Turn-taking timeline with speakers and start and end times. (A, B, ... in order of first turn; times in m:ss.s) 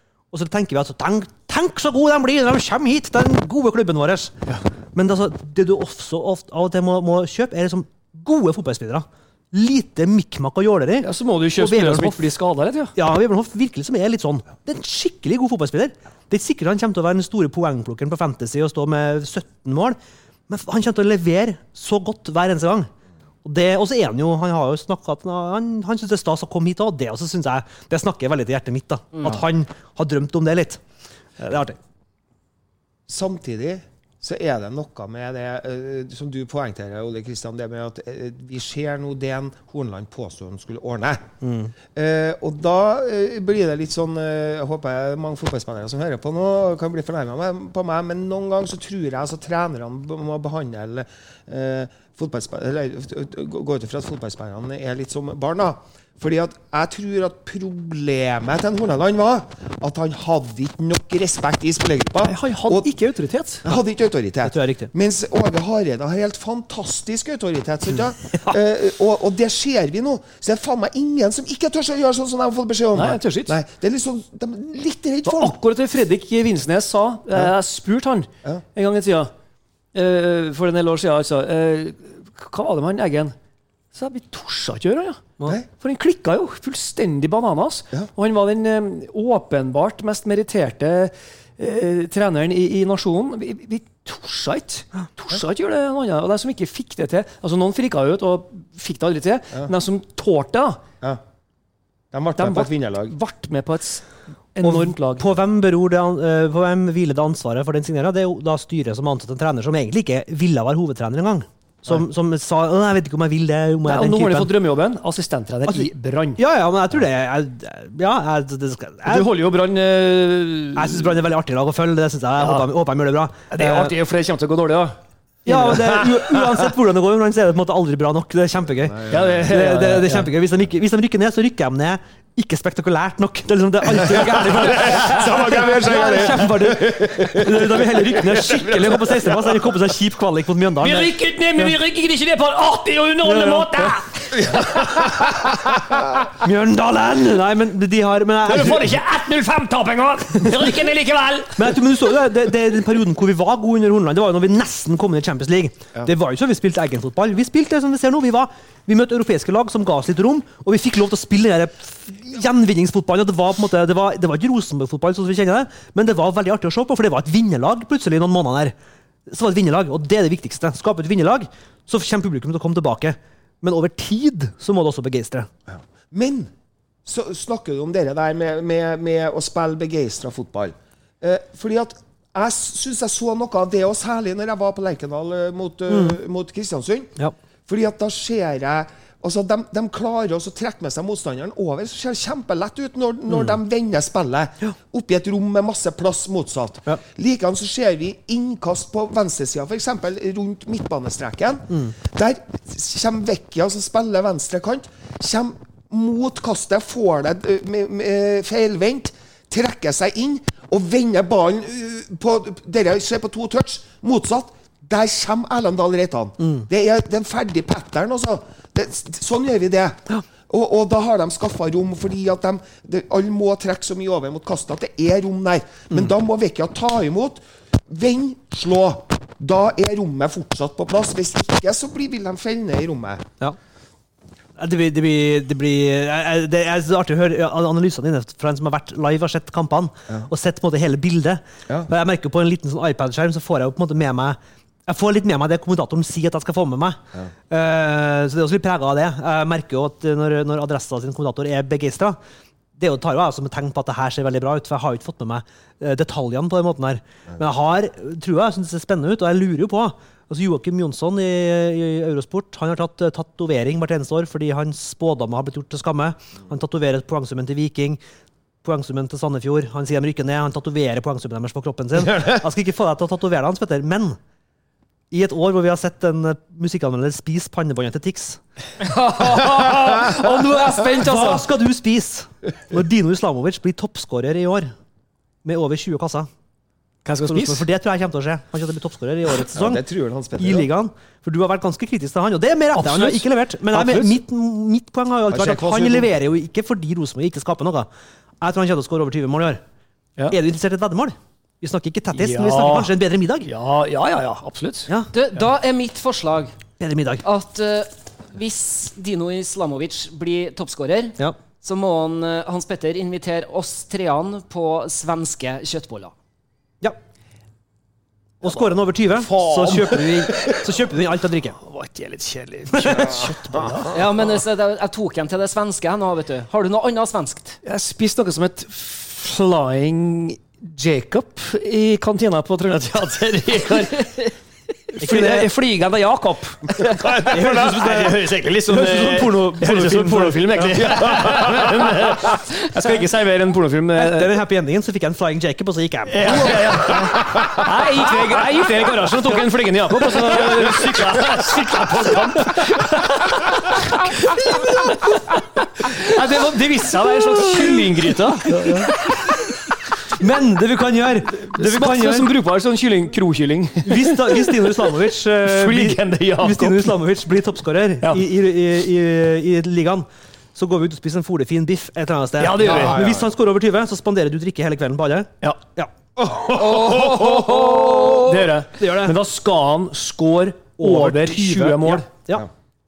0:00.3-0:04.4 A
0:04.9-0:12.2 A
0:11.0-0:12.9 B
0:13.0-0:22.9 A
0:23.4-0:30.8 A
0:31.4-0:31.8 A
0:33.1-0:41.3 C
0:41.4-0:41.7 A
0:41.9-1:02.9 C
1:02.2-1:03.6 B
1:03.6-1:15.6 C
1:04.4-1:04.9 A
1:12.9-1:13.6 B
1:15.2-1:19.3 B
1:19.9-1:23.3 B
1:23.9-1:40.8 B
1:42.1-1:43.1 C
1:42.4-1:45.2 B
1:44.6-1:54.5 A
1:53.8-1:56.4 B
1:55.7-1:59.3 A
1:59.0-2:01.1 B
2:00.8-2:04.0 A
2:02.4-2:02.7 B
2:03.5-2:06.6 B
2:05.5-2:21.8 A
2:09.0-2:09.3 C
2:09.1-2:10.3 B
2:14.1-2:17.6 B
2:14.2-2:19.1 C
2:20.8-2:25.8 B
2:23.2-2:24.0 A
2:24.4-2:24.8 C
2:26.4-2:29.0 A
2:28.4-2:31.8 B
2:31.6-2:48.8 A
2:49.3-2:55.5 A
2:55.7-2:56.5 C
2:57.0-3:53.3 C
3:05.9-3:06.2 A
3:13.3-3:13.6 A
3:54.6-4:12.2 A
4:12.8-4:28.0 A
4:28.6-4:34.2 A
4:35.1-4:38.4 A
4:38.8-4:41.4 D
4:40.1-4:44.7 A
4:45.4-4:46.3 A
4:47.0-4:47.6 B
4:47.3-4:49.8 A
4:49.3-4:50.7 C
4:50.4-4:57.9 A
4:52.7-4:54.2 B
4:55.3-4:56.1 C
4:58.4-4:59.6 A
5:00.3-5:03.5 A
5:02.1-5:02.9 B
5:03.4-5:04.9 B
5:05.1-5:06.6 D
5:06.8-5:07.2 A
5:07.2-5:16.1 D
5:18.4-5:21.6 A
5:19.2-5:20.6 B
5:21.6-5:23.9 B
5:22.7-5:23.3 A
5:22.9-5:24.0 C
5:23.9-5:27.6 D
5:27.6-5:34.3 B
5:34.9-5:44.3 B
5:35.0-5:35.5 A
5:37.2-5:42.4 A
5:40.8-5:41.3 C
5:44.0-5:49.4 A
5:46.1-5:55.1 B
5:50.0-5:51.1 A
5:52.1-5:52.6 A
5:54.0-5:55.2 A
5:55.8-5:59.0 B
5:57.1-6:02.3 A
6:01.5-6:07.0 B
6:03.8-6:15.9 A
6:12.4-6:13.0 B
6:12.7-6:13.2 C
6:16.2-6:17.6 C
6:16.5-6:18.4 D
6:16.9-6:22.1 B
6:18.8-6:19.2 A
6:20.8-6:22.5 A